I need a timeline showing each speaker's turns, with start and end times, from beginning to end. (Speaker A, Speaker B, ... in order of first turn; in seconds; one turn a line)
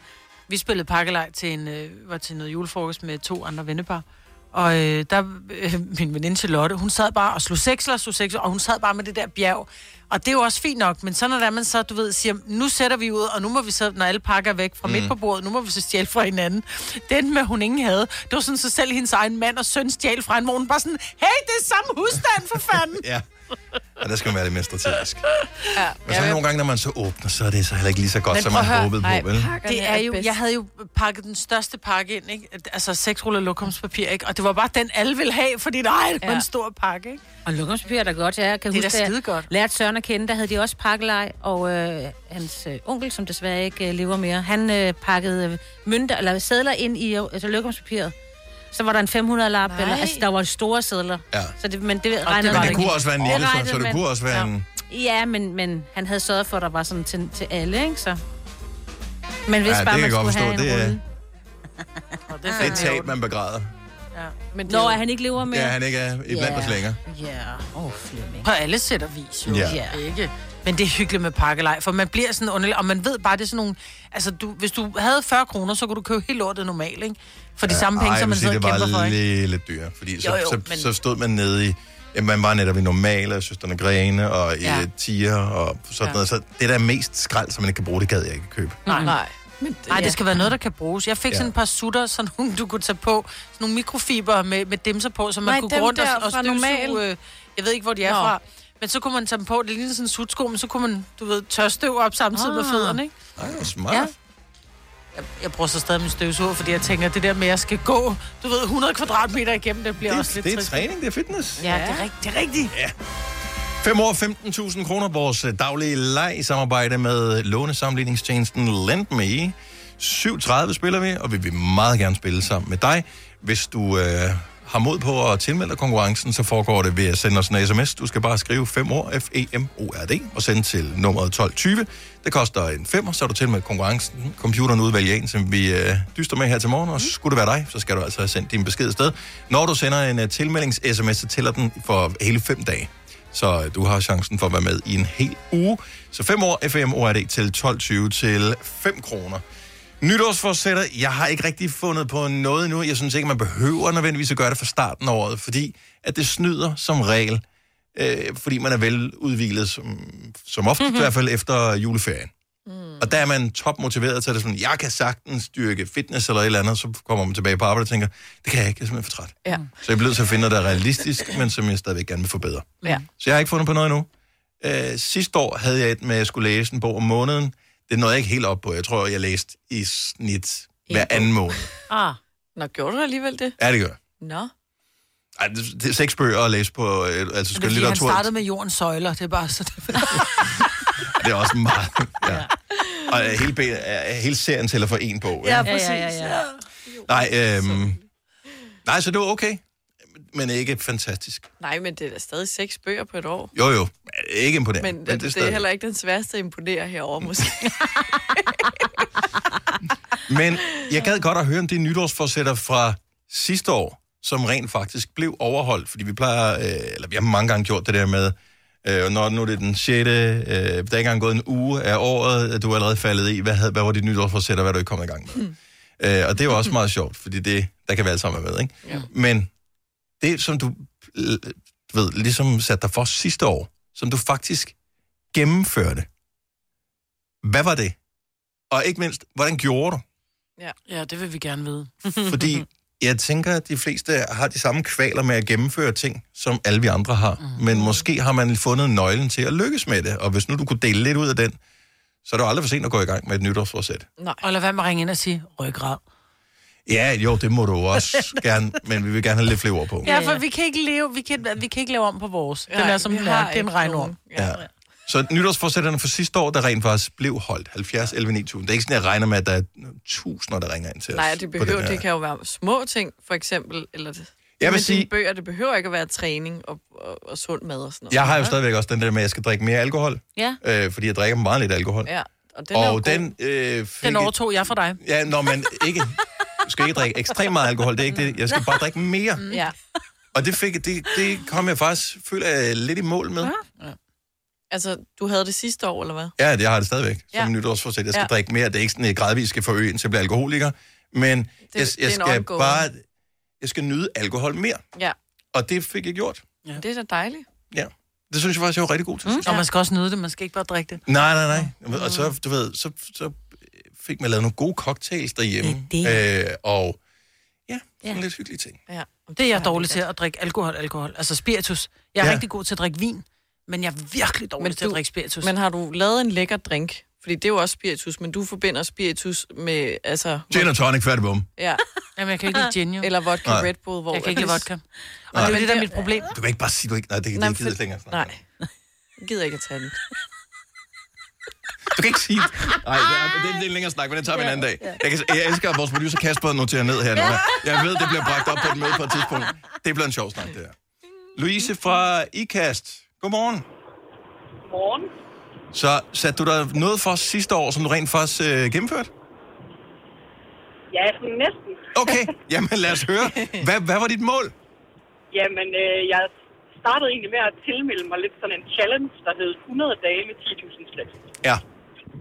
Speaker A: 0.5-23.0
Speaker B: 14.8-15.1
Speaker B: 22.9-23.2
Speaker B: 24.0-25.2
Speaker C: 25.7-26.4
Speaker B: 26.0-29.5
Speaker A: 28.3-28.9
Speaker C: 29.0-30.3
Speaker A: 29.6-37.2
Speaker D: 37.4-48.1
Speaker A: 38.7-39.5
Speaker D: 48.7-54.2
Speaker C: 49.7-50.2
Speaker A: 52.2-53.0
Speaker B: 52.5-54.6
Speaker D: 54.8-58.2
Speaker D: 59.5-61.0
Speaker B: 59.6-61.0
Speaker A: 62.3-63.1
Speaker D: 62.5-62.8
Speaker B: 62.6-63.7
Speaker C: 64.5-65.0
Speaker D: 64.7-68.5
Speaker B: 65.4-67.0
Speaker A: 68.4-79.2
Speaker B: 69.5-69.8
Speaker D: 69.5-70.0
Speaker B: 77.6-88.9
Speaker A: 80.2-80.9
Speaker A: 88.9-89.1
Speaker D: 88.9-89.1
Speaker C: 89.0-90.2
Speaker A: 89.9-103.1
Speaker C: 95.4-97.0
Speaker C: 98.0-98.3
Speaker D: 102.3-103.0
Speaker B: 103.4-104.1
Speaker A: 105.1-110.8
Speaker B: 110.0-111.6
Speaker C: 111.6-112.0
Speaker A: 111.6-112.7
Speaker B: 112.7-112.9
Speaker B: 113.8-149.4
Speaker B: 150.0-157.4
Speaker B: 157.9-162.3
Speaker C: 162.7-163.2
Speaker B: 163.0-174.1
Speaker B: 174.6-181.7
Speaker C: 180.9-181.3
Speaker D: 181.9-182.2
Speaker C: 182.6-183.6
Speaker B: 183.6-184.0
Speaker C: 184.2-184.5
Speaker B: 185.4-188.3
Speaker A: 187.5-190.4
Speaker B: 191.1-192.5
Speaker B: 193.1-195.7
Speaker A: 195.4-196.4
Speaker D: 195.6-196.4
Speaker C: 196.8-198.0
Speaker B: 197.1-198.0
Speaker B: 198.8-199.6
Speaker B: 200.3-201.5
Speaker C: 201.6-203.5
Speaker B: 203.5-205.6
Speaker C: 204.8-207.7
Speaker B: 210.2-229.5
Speaker B: 230.2-234.7
Speaker B: 235.3-236.1
Speaker B: 237.4-237.9
Speaker B: 238.7-240.0
Speaker A: 240.9-242.2
Speaker B: 242.2-251.6
Speaker C: 247.7-248.1
Speaker B: 252.2-254.1
Speaker A: 254.4-256.0
Speaker B: 256.9-260.1
Speaker A: 260.0-264.1
Speaker D: 260.1-260.4
Speaker C: 262.7-264.6
Speaker B: 264.3-272.0
Speaker C: 271.1-278.3
Speaker B: 274.6-275.1
Speaker B: 278.1-282.1
Speaker C: 282.0-283.3
Speaker B: 282.7-284.3
Speaker A: 284.0-285.0
Speaker B: 285.0-289.5
Speaker B: 290.3-293.5
Speaker C: 294.7-296.3
Speaker B: 296.4-303.0
Speaker C: 301.7-302.9
Speaker B: 303.6-304.8
Speaker B: 305.5-306.4
Speaker C: 306.7-307.4
Speaker B: 307.7-309.5
Speaker A: 309.4-311.0
Speaker B: 311.1-317.0
Speaker B: 317.7-318.8
Speaker C: 318.9-320.0
Speaker A: 319.4-325.5
Speaker C: 324.6-330.8
Speaker B: 330.5-331.5
Speaker C: 331.6-331.8
Speaker A: 332.1-333.1
Speaker C: 333.0-334.7
Speaker B: 333.4-333.7
Speaker A: 334.1-336.3
Speaker B: 335.3-335.6
Speaker D: 335.4-335.9
Speaker B: 336.3-338.3
Speaker C: 337.3-338.4
Speaker C: 339.2-340.0
Speaker B: 341.9-350.7
Speaker D: 347.2-347.6
Speaker B: 351.4-353.6
Speaker E: 354.6-355.1
Speaker B: 355.7-359.1
Speaker E: 360.9-362.2
Speaker B: 361.9-364.5
Speaker E: 365.3-371.1